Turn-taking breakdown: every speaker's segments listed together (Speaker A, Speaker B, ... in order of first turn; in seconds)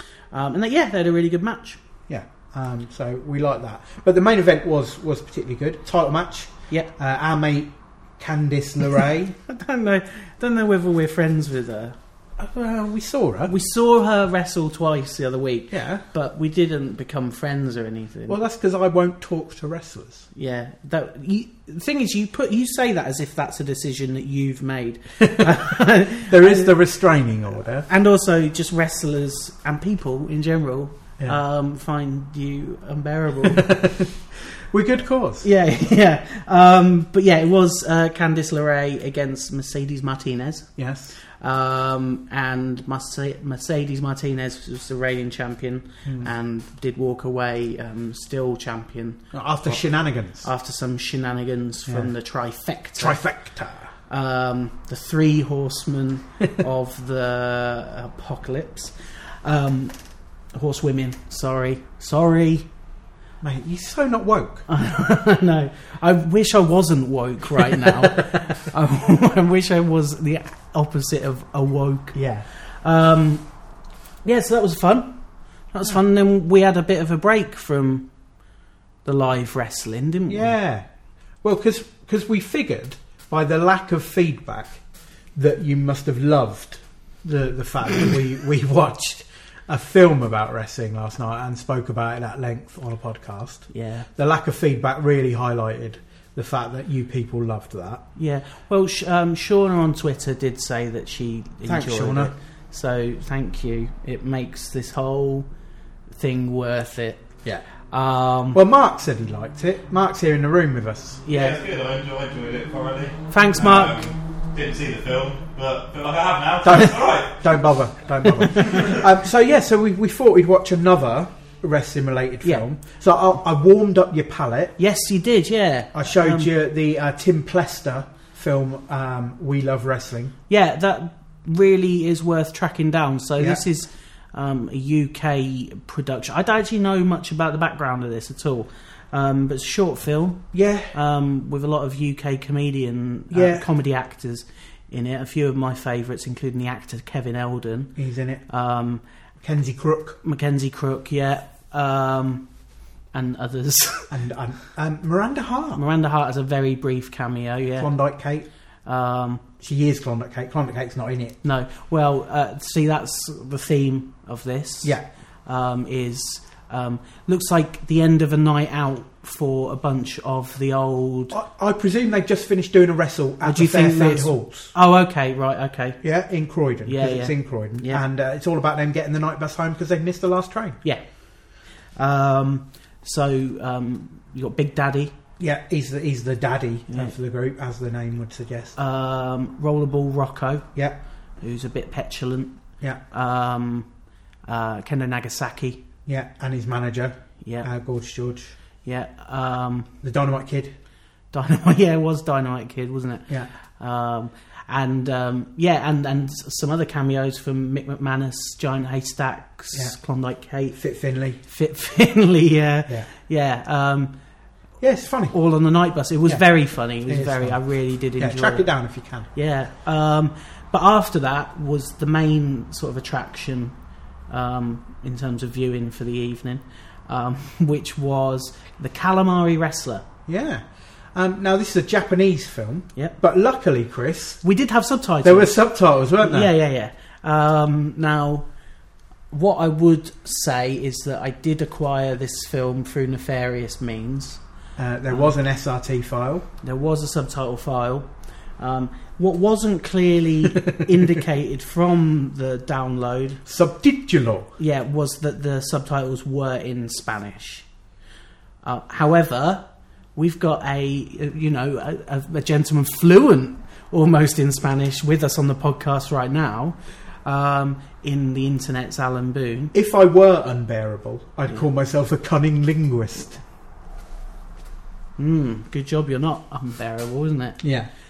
Speaker A: 0.3-1.8, 9.4-11.9, 13.5-18.4, 20.3-26.7, 27.9-33.8, 35.4-40.7, 41.2-49.8, 50.4-53.2, 54.1-60.0, 60.5-62.7, 64.7-72.2, 72.8-73.4, 74.2-75.2, 75.7-78.1, 79.0-80.5, 93.7-94.1, 98.2-105.5, 106.1-107.3, 107.9-108.6, 111.2-111.6, 113.3-114.0, 118.4-118.9, 124.8-126.5, 130.5-147.9, 148.5-149.0, 150.2-152.4, 153.1-154.1, 155.7-157.9, 158.8-159.4, 161.4-171.3, 173.4-176.0, 176.8-178.0, 181.9-185.2, 188.8-190.7, 191.4-192.6, 193.1-193.9, 194.5-195.8, 197.4-197.7, 198.8-199.9, 201.3-210.8, 211.4-214.1, 215.3-218.7, 219.3-223.8, 224.3-230.1, 234.4-235.5, 236.2-238.5, 239.3-244.4, 246.6-253.4, 254.6-257.7, 258.6-269.7, 275.2-277.6
Speaker B: 2.1-9.4, 12.4-13.5, 15.7-16.0, 18.3-20.3, 25.2-25.6, 26.3-27.9, 33.4-35.5, 40.8-41.2, 49.3-50.5, 53.0-53.9, 63.4-64.7, 72.1-72.5, 80.3-80.8, 81.4-84.8, 85.3-98.0, 101.6-102.3, 108.5-111.2, 116.6-124.8, 125.9-130.3, 133.4-133.6, 140.5-140.9, 143.3-143.7, 147.9-148.4, 149.4-150.2, 154.1-155.8, 157.8-158.5, 159.6-161.4, 171.3-174.7, 176.0-180.8, 185.4-188.8, 196.1-198.5, 200.0-200.7, 210.8-211.4, 214.8-215.3, 217.1-217.6, 218.2-219.3, 230.3-234.4, 235.2-236.5, 244.8-246.4, 253.4-254.5, 269.7-273.4, 277.6-277.9
Speaker C: 111.3-117.4